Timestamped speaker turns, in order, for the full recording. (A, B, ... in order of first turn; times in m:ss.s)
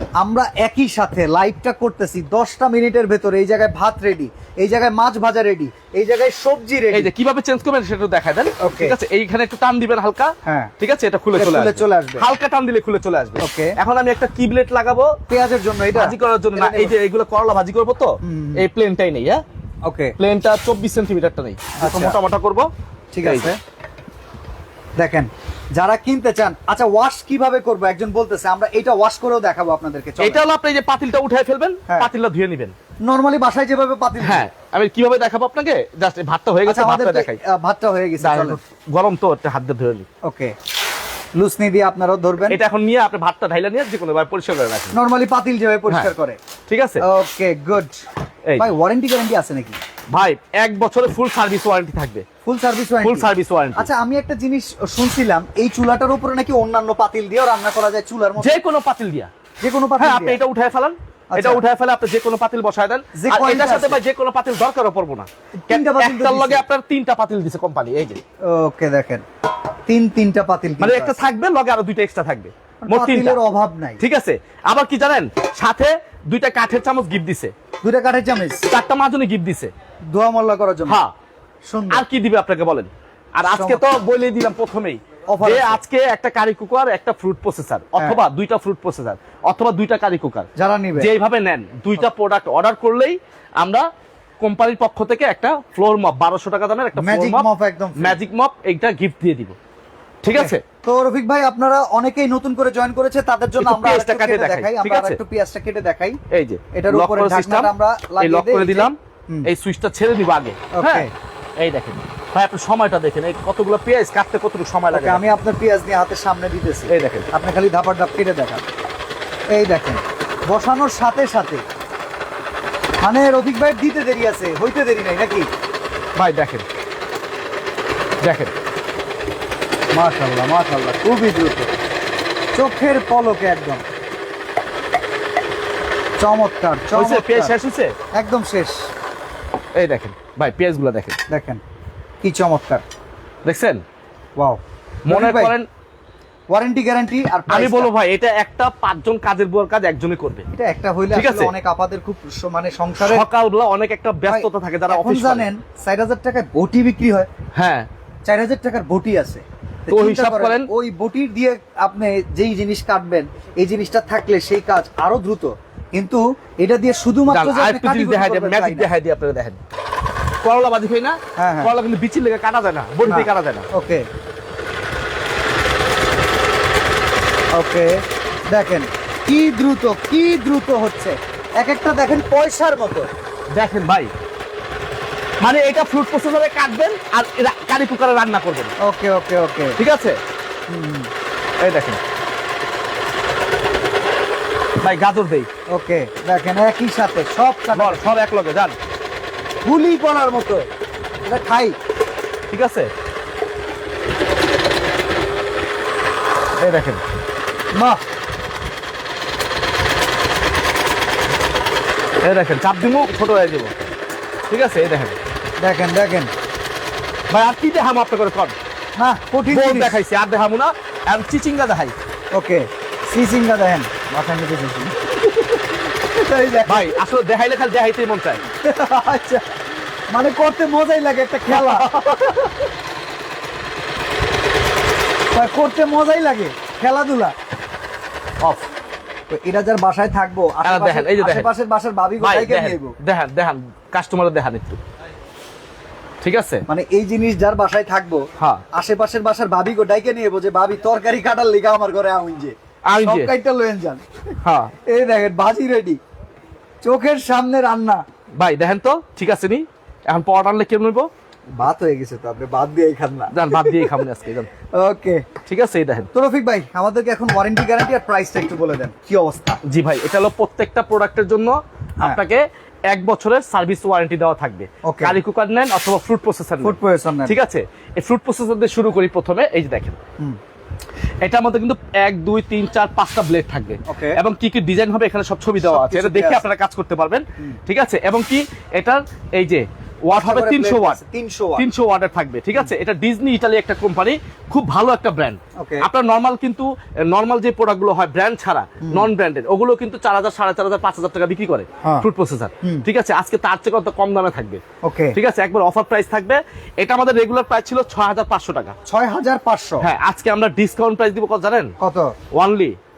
0:00.2-0:07.1 A
0:06.9-0:15.2 B
0:08.6-0:09.0 A
0:10.4-0:10.7 A
0:11.3-0:12.2 A
0:13.4-0:13.8 A
0:15.3-0:16.9 A
0:15.9-0:19.4 B
0:18.2-0:18.6 A
0:19.8-0:20.1 A
0:20.2-0:22.7 B
0:21.8-0:22.2 A
0:23.1-0:23.6 A
0:23.2-0:23.5 B
0:25.0-0:30.4 A
0:30.2-0:32.7 B
0:33.0-0:34.4 A
0:34.2-0:37.4 B
0:36.6-0:38.6 A
0:38.2-0:40.1 B
0:40.2-0:40.5 A
0:41.3-0:42.6 A
0:42.5-0:45.0 B
0:44.9-0:46.4 A
0:46.7-0:47.0 B
0:47.0-0:48.0 A
0:48.6-0:49.8 A
0:50.1-0:52.2 B
0:52.4-0:58.5 A
0:53.0-0:53.9 B
0:58.4-0:59.3 B
0:59.6-1:00.4 A
1:00.0-1:08.2 B
1:01.3-1:01.6 A
1:03.1-1:04.0 A
1:05.6-1:06.6 A
1:08.4-1:09.2 A
1:09.9-1:11.2 A
1:10.8-1:13.4 B
1:12.8-1:14.0 A
1:14.0-1:17.5 B
1:17.8-1:18.7 A
1:18.7-1:19.7 B
1:20.1-1:21.0 A
1:20.9-1:21.1 B
1:21.7-1:22.0 A
1:21.9-1:33.8 B
1:23.4-1:23.8 A
1:25.3-1:25.8 A
1:30.6-1:31.1 A
1:34.4-1:39.6 B
1:37.0-1:38.2 A
1:40.2-1:40.6 B
1:40.3-1:46.2 A
1:43.6-1:45.2 B
1:46.3-1:55.4 B
1:46.7-1:49.5 A
1:50.7-1:51.1 A
1:54.9-1:58.6 A
1:56.9-1:57.3 B
1:59.5-2:01.6 A
2:03.0-2:05.5 A
2:06.2-2:06.6 B
2:08.2-2:08.5 B
2:09.9-2:11.7 A
2:12.5-2:13.8 A
2:16.2-2:17.5 A
2:16.9-2:17.9 B
2:18.1-2:18.8 A
2:19.8-2:21.2 B
2:21.3-2:21.6 A
2:22.2-2:22.8 A
2:23.4-2:23.8 B
2:24.4-2:25.5 A
2:25.0-2:25.7 B
2:26.5-2:27.9 A
2:27.5-2:30.5 B
2:30.5-2:33.2 A
2:31.1-2:31.5 B
2:33.0-2:35.5 B
2:34.3-2:37.3 A
2:37.5-2:37.9 B
2:38.2-2:48.9 A
2:39.9-2:40.7 B
2:47.3-2:49.6 B
2:50.4-2:53.7 B
2:51.4-2:51.7 A
2:53.0-2:54.0 A
2:57.5-3:03.1 A
3:03.5-3:04.1 B
3:05.4-3:08.7 B
3:08.8-3:09.8 A
3:09.8-3:10.2 B
3:10.7-3:11.1 A
3:11.6-3:12.0 B
3:14.8-3:15.5 B
3:15.7-3:18.1 A
3:17.7-3:18.7 B
3:19.6-3:20.7 A
3:21.2-3:21.8 A
3:22.5-3:22.9 B
3:26.6-3:27.0 B
3:27.7-3:28.0 A
3:32.2-3:33.9 B
3:34.5-3:35.2 B
3:35.6-3:36.3 A
3:37.3-3:38.5 B
3:39.0-3:40.0 A
3:39.5-3:41.9 B
3:42.3-3:47.0 A
3:46.6-3:48.4 B
3:48.6-3:49.4 A
3:50.1-3:52.0 A
3:51.5-3:52.5 B
3:55.3-3:57.3 A
3:58.4-3:58.7 B
3:59.3-4:03.0 A
4:00.6-4:01.5 B
4:02.2-4:04.8 B
4:06.2-4:06.6 B
4:06.7-4:14.3 A
4:08.4-4:08.6 B
4:12.9-4:13.3 B
4:14.4-4:14.7 B
4:14.8-4:16.0 A
4:16.8-4:18.0 A
4:18.4-4:21.1 B
4:21.6-4:24.0 A
4:23.3-4:24.5 B
4:24.7-4:25.2 A
4:25.4-4:26.1 B
4:26.1-4:29.6 A
4:29.6-4:40.0 B
4:34.8-4:35.2 A
4:36.6-4:37.4 A
4:41.2-4:51.0 B
4:43.9-4:44.2 A
4:45.6-4:46.4 A
4:50.1-4:51.6 A
4:51.6-5:04.6 B
4:55.6-4:55.9 A
4:58.8-4:59.1 A
5:04.8-5:05.2 A
5:05.1-5:08.8 B
5:08.9-5:09.8 A
5:09.8-5:11.7 B
5:11.8-5:12.1 A
5:12.3-5:12.8 B